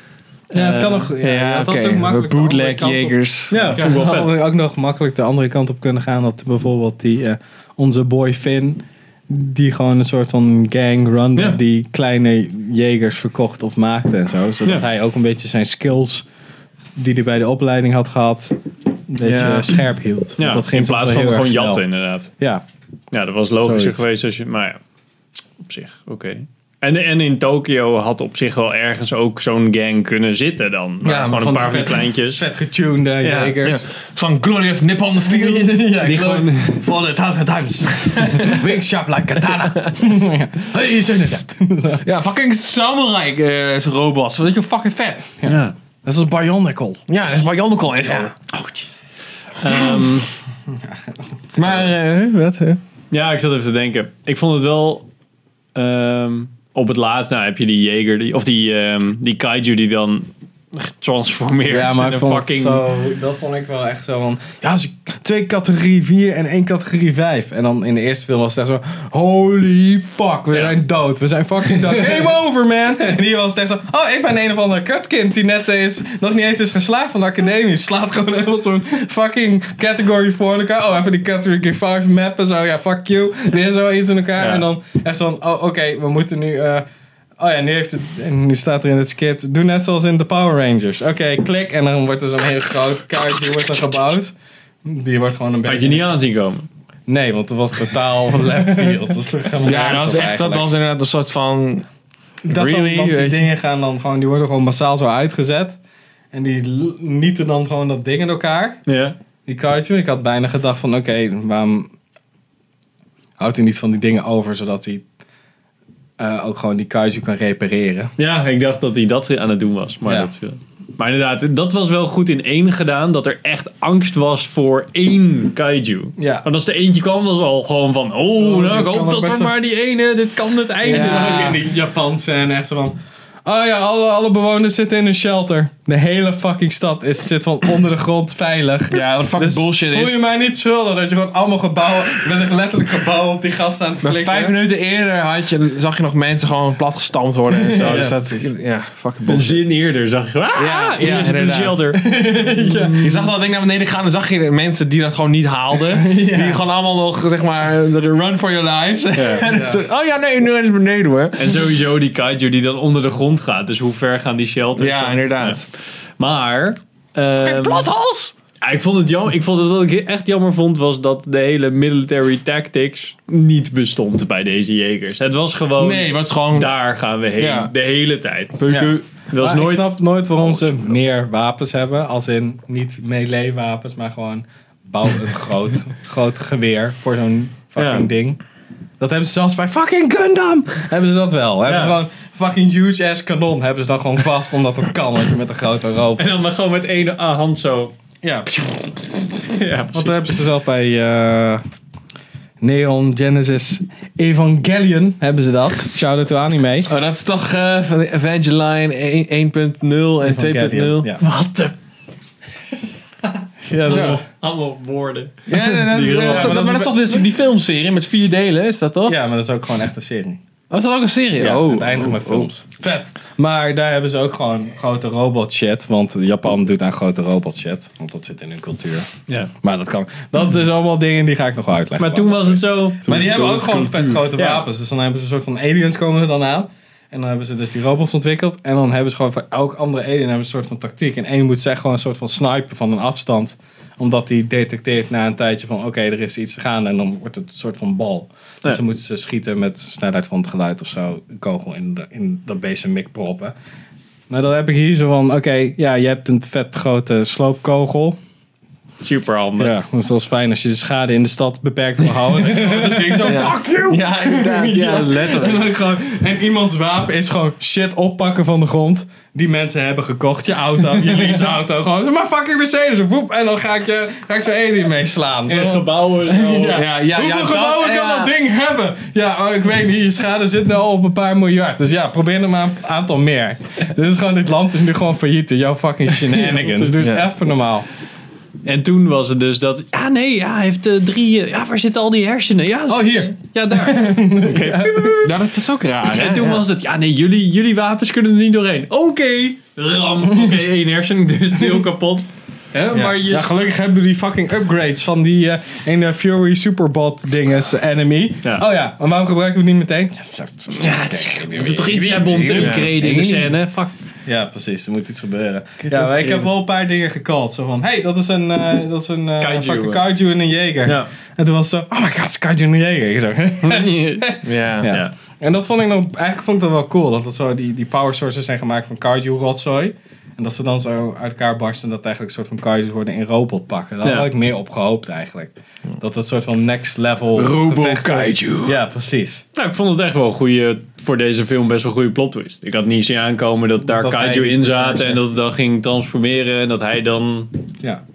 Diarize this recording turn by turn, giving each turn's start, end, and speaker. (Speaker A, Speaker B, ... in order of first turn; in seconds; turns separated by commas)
Speaker A: 0.5-1.1, Speaker B: 0.5-16.2, Speaker C: 1.2-3.5, Speaker A: 3.5-4.4, Speaker B: 16.9-21.8, Speaker C: 19.2-19.8, Speaker A: 20.4-22.3, Speaker B: 22.4-22.6, Speaker A: 23.1-24.8, Speaker B: 23.6-24.0, Speaker A: 25.6-32.4, Speaker C: 31.0-31.6, Speaker B: 31.4-33.9, Speaker C: 33.3-36.0, Speaker B: 35.2-42.0, Speaker A: 36.0-36.8, Speaker C: 38.2-38.6, Speaker C: 39.5-39.9, Speaker C: 42.0-45.4, Speaker B: 45.4-47.1, Speaker A: 45.4-45.7, Speaker C: 47.1-48.3, Speaker B: 48.0-48.7, Speaker A: 49.6-50.3, Speaker B: 50.7-51.0, Speaker C: 51.5-52.8, Speaker A: 53.1-55.1, Speaker A: 55.7-62.8, Speaker B: 61.7-86.8, Speaker A: 84.4-84.7, Speaker B: 87.4-96.1, Speaker A: 95.7-96.7, Speaker B: 97.1-100.7, Speaker C: 99.6-101.8, Speaker B: 102.4-105.8, Speaker C: 102.5-103.5, Speaker B: 106.3-108.8, Speaker A: 108.9-109.1, Speaker B: 109.5-111.9, Speaker B: 113.4-115.0, Speaker B: 116.2-118.1, Speaker A: 118.2-131.6, Speaker B: 120.0-120.3, Speaker B: 126.2-126.5, Speaker B: 128.3-129.6, Speaker B: 130.8-144.6, Speaker C: 130.8-131.6, Speaker C: 138.9-140.2, Speaker C: 144.0-149.6, Speaker B: 147.5-148.5, Speaker A: 147.7-148.1, Speaker A: 149.2-153.2, Speaker C: 150.6-151.9, Speaker B: 151.9-153.1, Speaker C: 153.0-161.6, Speaker B: 155.9-156.6, Speaker A: 159.2-159.4, Speaker B: 159.5-159.8, Speaker A: 161.4-165.6, Speaker C: 164.8-165.6, Speaker A: 166.2-167.9, Speaker C: 167.4-168.3, Speaker A: 168.6-178.6, Speaker C: 175.8-176.8, Speaker C: 177.4-177.7, Speaker C: 178.6-179.1, Speaker B: 178.7-188.4, Speaker A: 179.3-180.0, Speaker C: 187.8-188.1, Speaker B: 189.0-196.3, Speaker A: 191.7-192.0, Speaker A: 196.2-197.9, Speaker B: 198.2-199.0, Speaker A: 199.4-200.4, Speaker B: 199.9-201.6, Speaker B: 202.6-206.9, Speaker C: 206.9-211.1, Speaker B: 210.2-211.2, Speaker A: 211.2-211.7, Speaker A: 213.6-216.8, Speaker B: 213.8-214.2, Speaker C: 215.5-219.2, Speaker B: 216.0-217.2, Speaker B: 219.0-220.4, Speaker C: 220.7-222.5, Speaker B: 221.4-229.1, Speaker B: 229.6-253.5, Speaker A: 231.9-233.3, Speaker C: 233.0-234.3, Speaker A: 234.3-234.7, Speaker B: 254.3-258.2, Speaker A: 259.0-259.7, Speaker B: 259.6-287.9, Speaker C: 262.7-265.7, Speaker A: 262.9-263.3, Speaker A: 275.5-276.8, Speaker C: 276.5-278.3, Speaker A: 286.4-286.9, Speaker C: 287.0-287.2, Speaker A: 288.6-295.3, Speaker B: 292.9-295.3, Speaker C: 295.2-296.6, Speaker A: 296.1-303.5, Speaker B: 300.2-300.6, Speaker B: 301.6-301.8, Speaker B: 302.9-313.6, Speaker A: 310.8-313.9, Speaker C: 312.2-313.0, Speaker B: 314.2-339.4, Speaker C: 315.8-316.5, Speaker A: 319.4-320.0, Speaker A: 323.6-324.2, Speaker C: 324.4-324.9, Speaker A: 324.8-325.1, Speaker A: 334.0-334.3, Speaker C: 337.3-338.8, Speaker A: 339.5-347.5, Speaker B: 343.8-345.2